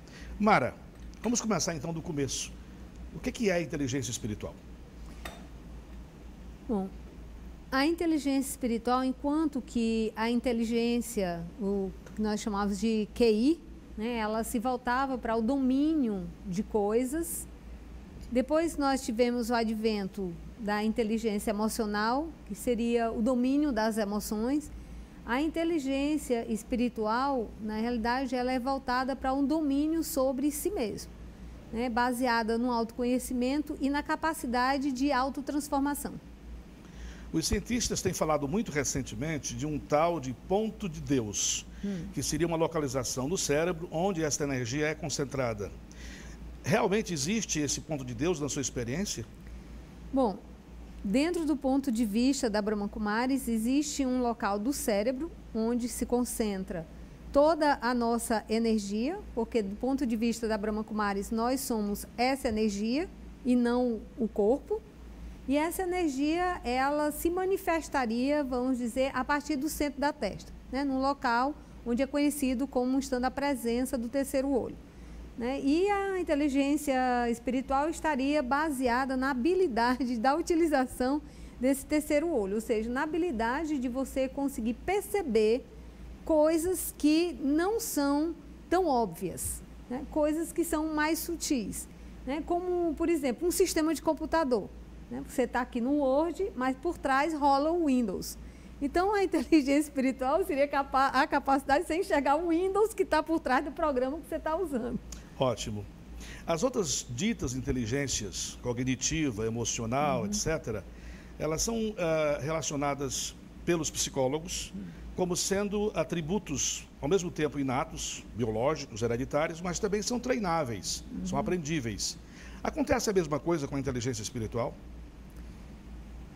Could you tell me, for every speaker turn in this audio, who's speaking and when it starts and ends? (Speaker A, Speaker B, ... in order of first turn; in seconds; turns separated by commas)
Speaker A: 0.4-2.5, Speaker A: 3.1-4.6, Speaker B: 7.7-17.5, Speaker B: 18.3-24.7, Speaker B: 25.2-31.1, Speaker B: 31.7-36.2, Speaker A: 37.3-45.7, Speaker B: 41.8-42.1, Speaker A: 46.6-49.3, Speaker B: 50.1-50.4, Speaker B: 51.0-64.8, Speaker B: 65.5-74.8, Speaker B: 75.4-85.6, Speaker B: 86.2-105.0, Speaker A: 105.4-105.9, Speaker A: 106.5-110.9, Speaker A: 111.4-124.8